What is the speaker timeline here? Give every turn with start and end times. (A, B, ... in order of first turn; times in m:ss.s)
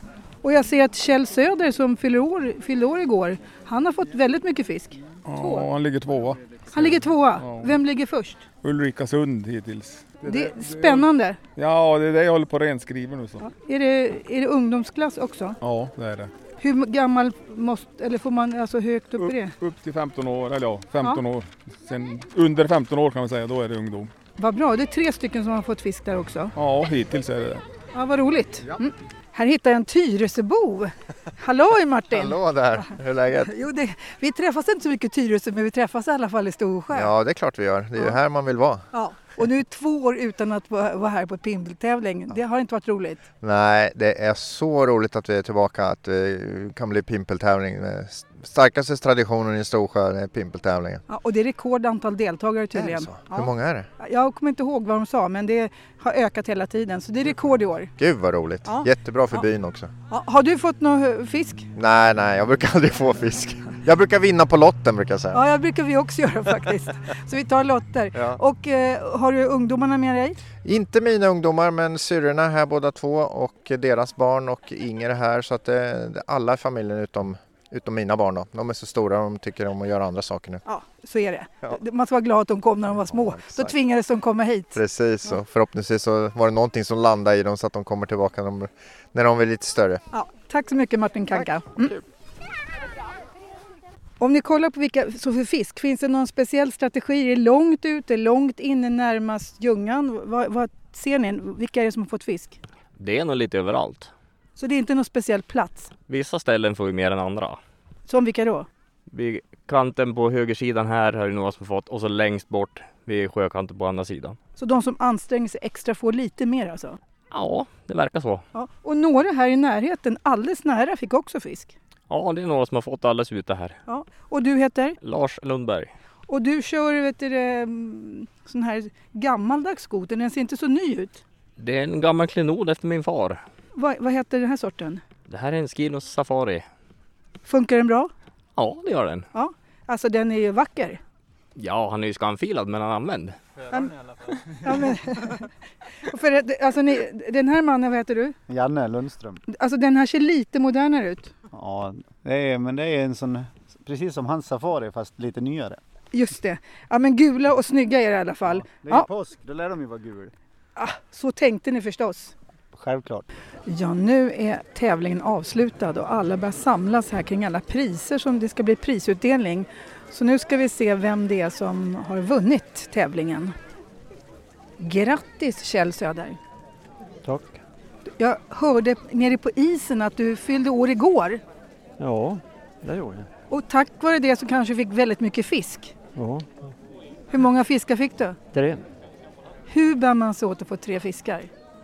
0:00.4-0:05.7 A
0:05.3-0:07.8 B
0:06.7-0:08.4 A
0:08.6-0:13.5 B
0:10.3-0:11.4 A
0:13.4-0:15.6 A
0:15.6-0:16.3 B
0:16.6-0:19.6 A
0:19.2-0:24.1 B
0:24.4-0:26.5 A
0:26.6-0:27.6 B
0:27.9-0:37.1 A
0:32.1-0:33.6 C
0:36.9-0:38.8 C
0:38.9-0:43.2 A
0:43.4-0:51.0 C
0:51.1-0:57.9 A
0:52.7-0:53.9 C
0:58.0-0:59.9 C
0:58.6-0:59.5 A
1:00.1-1:01.7 A
1:01.8-1:05.4 C
1:05.3-1:10.4 A
1:08.1-1:08.4 C
1:10.6-1:20.6 C
1:20.7-1:24.8 A
1:23.0-1:23.7 C
1:24.7-1:30.0 C
1:30.1-1:32.0 A
1:34.2-1:42.6 A
1:43.0-1:44.1 D
1:44.6-1:45.9 A
1:46.1-1:47.6 D
1:48.1-1:48.7 A
1:49.1-1:54.4 D
1:54.6-1:57.0 A
1:57.3-1:58.4 D
1:58.5-2:01.8 A
2:02.1-2:03.8 D
2:03.9-2:05.0 A
2:05.0-2:05.9 D
2:06.3-2:11.2 A
2:11.6-2:13.4 D
2:13.8-2:15.0 A
2:15.3-2:16.7 D
2:17.4-2:18.1 A
2:18.6-2:19.2 D
2:19.3-2:21.0 A
2:21.6-2:23.4 D
2:24.6-2:25.5 A
2:26.0-2:28.4 A
2:28.5-2:29.4 E
2:29.5-2:31.3 A
2:31.5-2:35.8 E
2:36.1-2:39.1 A
2:38.4-2:40.3 E
2:40.8-2:42.3 A
2:42.7-2:43.3 E
2:43.7-2:53.5 A
2:54.8-2:56.4 A
2:57.2-2:57.6 F
2:58.2-3:01.4 A
3:02.0-3:03.3 F
3:03.5-3:05.9 A
3:06.2-3:06.5 F
3:07.3-3:08.4 A
3:08.5-3:08.8 F
3:09.7-3:11.5 A